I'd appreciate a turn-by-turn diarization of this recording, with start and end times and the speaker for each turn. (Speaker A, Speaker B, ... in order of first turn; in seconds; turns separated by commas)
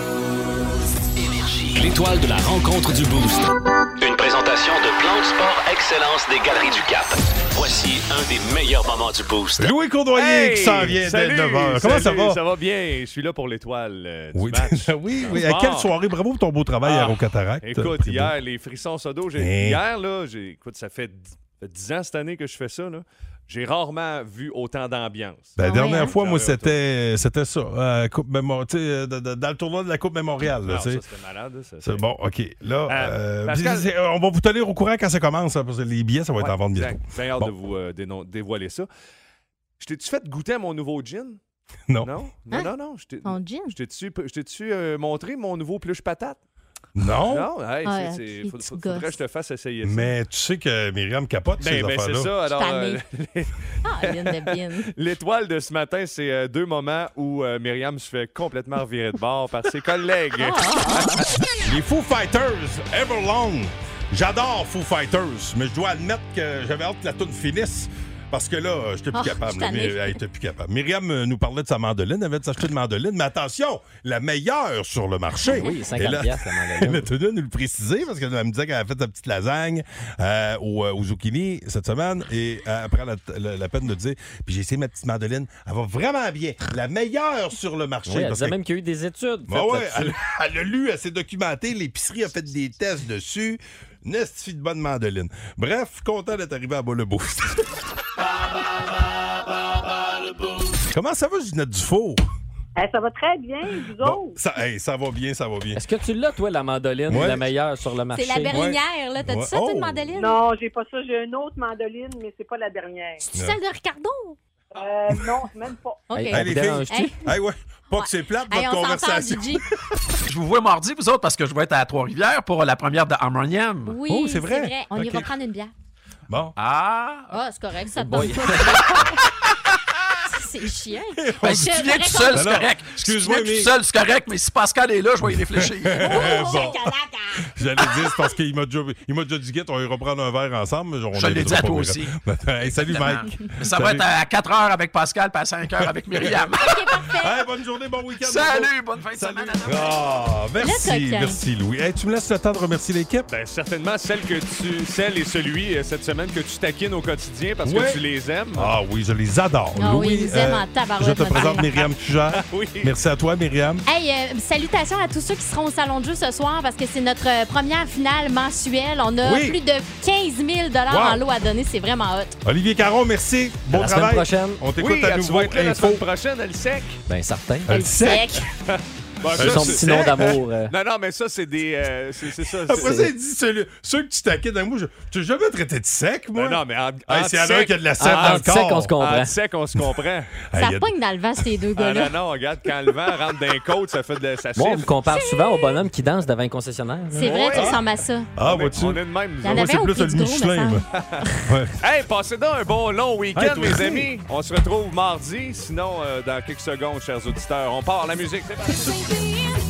Speaker A: 1.1-9.7, Speaker B: 9.6-12.4, Speaker C: 10.1-15.9, Speaker B: 14.3-18.4, Speaker C: 16.8-26.8, Speaker B: 19.4-19.8, Speaker B: 25.6-31.0, Speaker D: 25.6-26.1, Speaker C: 30.6-32.0, Speaker B: 31.8-37.5, Speaker C: 32.9-33.9, Speaker C: 36.4-38.9, Speaker C: 39.8-41.4, Speaker B: 41.9-42.2, Speaker C: 42.0-46.4, Speaker D: 43.2-43.7, Speaker B: 46.9-47.5, Speaker C: 47.2-50.1, Speaker D: 47.8-49.1, Speaker B: 49.8-52.3, Speaker C: 51.6-61.3, Speaker D: 52.5-53.0, Speaker D: 53.8-54.9, Speaker D: 60.4-61.2, Speaker B: 61.6-88.6, Speaker D: 69.1-70.2, Speaker D: 75.4-75.7, Speaker E: 75.5-77.1, Speaker E: 88.1-90.1, Speaker B: 89.5-97.7, Speaker B: 100.9-102.2, Speaker F: 102.8-104.4, Speaker B: 104.0-105.8, Speaker E: 105.7-108.5, Speaker B: 107.1-107.5, Speaker D: 108.1-110.4, Speaker B: 108.5-110.2, Speaker F: 110.2-113.2, Speaker D: 113.2-114.4, Speaker F: 114.7-116.0, Speaker D: 116.1-117.1, Speaker E: 116.1-117.1, Speaker B: 116.3-119.8, Speaker D: 117.9-119.6, Speaker G: 120.3-124.0, Speaker D: 123.8-125.7, Speaker B: 124.0-125.3, Speaker B: 126.3-126.5, Speaker G: 126.6-127.3, Speaker D: 127.3-129.0, Speaker E: 128.0-128.8, Speaker B: 128.6-128.9, Speaker D: 130.2-132.6, Speaker B: 131.2-133.7, Speaker G: 131.4-136.6, Speaker B: 135.2-144.1, Speaker D: 136.0-137.0, Speaker G: 141.1-142.1, Speaker G: 142.6-146.7, Speaker B: 145.8-146.4, Speaker D: 146.6-147.4, Speaker B: 147.2-153.3, Speaker G: 148.2-150.0, Speaker D: 150.6-151.4, Speaker C: 153.3-158.8, Speaker B: 157.6-158.0, Speaker B: 158.5-163.8, Speaker D: 159.8-161.7, Speaker C: 161.4-161.7, Speaker C: 162.3-162.9, Speaker D: 163.8-172.3, Speaker B: 169.2-169.6, Speaker B: 170.9-171.2, Speaker B: 172.4-176.0, Speaker E: 173.7-174.7, Speaker C: 174.8-177.0, Speaker E: 177.1-177.8, Speaker B: 177.7-178.4, Speaker D: 177.7-178.4, Speaker C: 178.7-183.1, Speaker B: 179.3-180.3, Speaker E: 179.3-180.7, Speaker B: 182.6-188.9, Speaker E: 182.7-183.1, Speaker C: 186.3-190.3, Speaker E: 188.0-189.3, Speaker B: 190.5-191.4, Speaker D: 190.6-192.1, Speaker C: 191.7-194.9, Speaker E: 194.6-197.5, Speaker D: 195.1-195.7, Speaker D: 197.1-198.3, Speaker C: 197.2-197.8, Speaker B: 198.3-200.8, Speaker C: 198.4-199.7, Speaker D: 199.4-201.3, Speaker C: 200.9-201.2, Speaker B: 201.4-201.8, Speaker C: 201.8-209.1, Speaker B: 203.3-204.1